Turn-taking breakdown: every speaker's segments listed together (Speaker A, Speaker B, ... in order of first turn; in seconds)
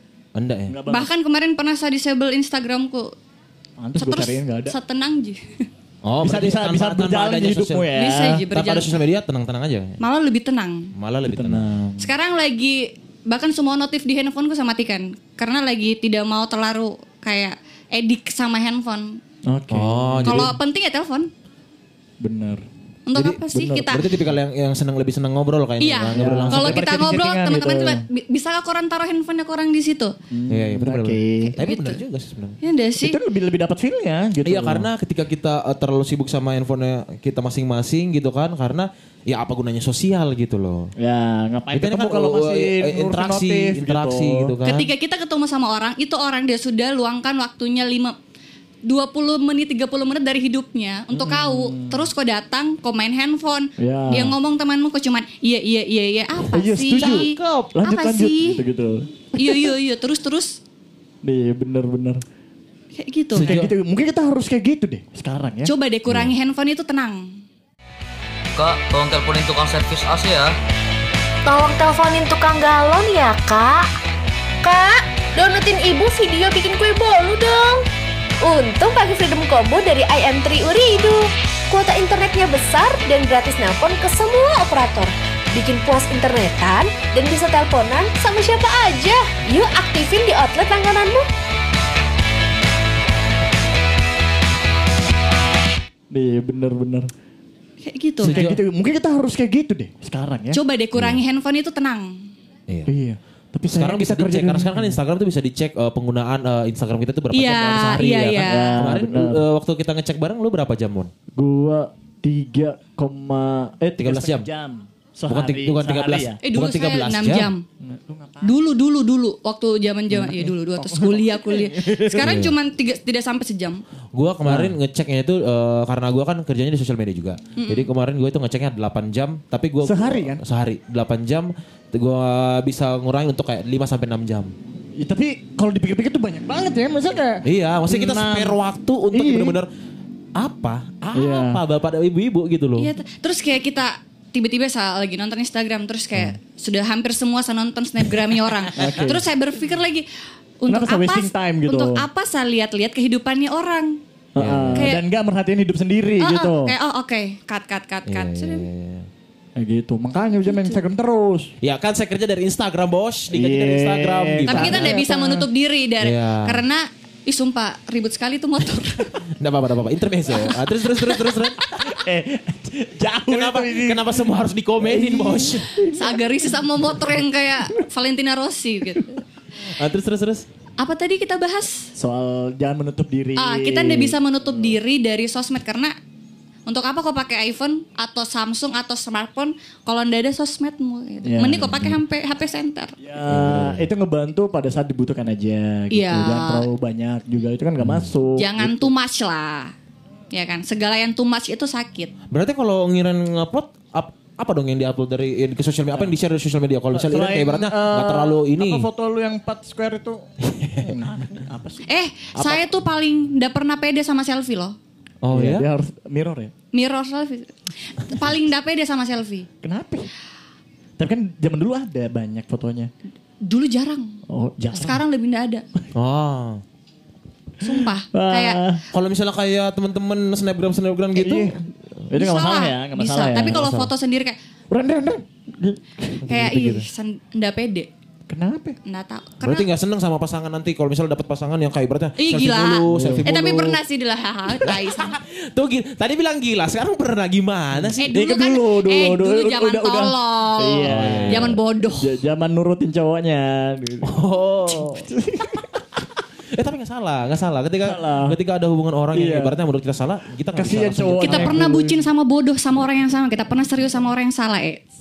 Speaker A: 0.3-0.7, 6.0-7.9, 8.5-10.0, 10.9-11.8, 19.7-20.5, 23.1-26.9, 30.5-32.6, 34.4-40.9, 41.7-44.9, 57.0-57.7, 63.3-63.7, 98.2-98.6, 100.9-101.2, 103.7-111.1, 114.0-114.5, 115.3-117.5, 122.2-122.5, 124.1-134.5, 137.4-139.7, 140.3-142.9, 154.4-154.9, 158.1-159.1, 161.6-165.0, 166.0-166.6, 169.3-172.0, 173.3-175.8, 179.7-180.5, 191.5-192.0, 193.2-193.9, 197.8-198.1, 202.3-208.9, 210.4-211.0, 212.3-212.8, 215.2-215.7, 225.9-226.6, 228.9-231.6, 236.2-236.8, 239.4-243.8, 244.6-248.1, 250.9-251.6, 254.0-255.1, 256.5-261.6
Speaker B: 0.7-1.1, 3.8-4.7, 6.2-8.4, 11.2-12.0, 19.5-20.5, 22.2-22.6, 23.5-24.1, 26.1-28.0, 30.3-31.5, 33.0-34.9, 41.0-44.5, 51.1-52.1, 53.8-54.4, 56.5-59.7, 61.2-62.2, 63.4-65.7, 96.1-97.1, 98.2-100.6, 102.9-105.0, 108.4-109.4, 111.3-116.4, 117.8-118.6, 120.1-122.3, 124.5-124.7, 129.8-130.4, 135.0-138.6, 139.1-139.6, 141.1-141.6, 148.8-149.2, 150.7-152.0, 154.3-156.7, 159.6-161.5, 163.3-165.4, 171.6-174.2, 174.8-177.1, 181.9-184.2, 191.2-191.7, 193.0-198.9, 206.9-211.9, 215.3-216.5, 219.6-220.1, 221.0-222.9, 224.3-225.0, 228.1-228.8, 231.1-231.6, 232.1-233.9, 234.7-236.5, 238.3-238.8, 242.9-243.2, 247.7-254.1, 254.7-255.7, 257.8-258.4, 259.1-259.6, 260.5-262.0
Speaker C: 0.9-3.1, 4.0-5.5, 7.9-9.0, 10.0-10.9, 12.0-19.2, 20.2-21.3, 23.1-24.1, 25.8-30.1, 31.6-32.0, 32.6-33.2, 44.6-48.1, 48.8-58.6, 59.3-60.6, 63.0-63.5, 65.6-67.4, 97.8-98.4, 100.5-102.3, 107.3-108.8, 116.4-117.6, 118.4-123.8, 127.6-127.9, 142.8-150.1, 150.6-154.0, 154.8-155.0, 156.2-158.7, 160.4-160.8, 164.5-169.2, 175.9-179.2, 180.8-181.9, 183.4-185.9, 186.7-192.9, 195.9-196.7, 198.3-199.7, 200.3-202.1, 211.8-214.8, 216.7-219.5, 223.4-224.2, 224.7-225.6, 227.6-228.6, 232.1-234.4, 236.3-237.9, 238.8-239.7, 242.2-245.2, 248.0-252.1, 261.2-264.8
Speaker D: 68.5-70.5
Speaker E: 71.5-73.9, 74.6-77.8, 78.4-91.3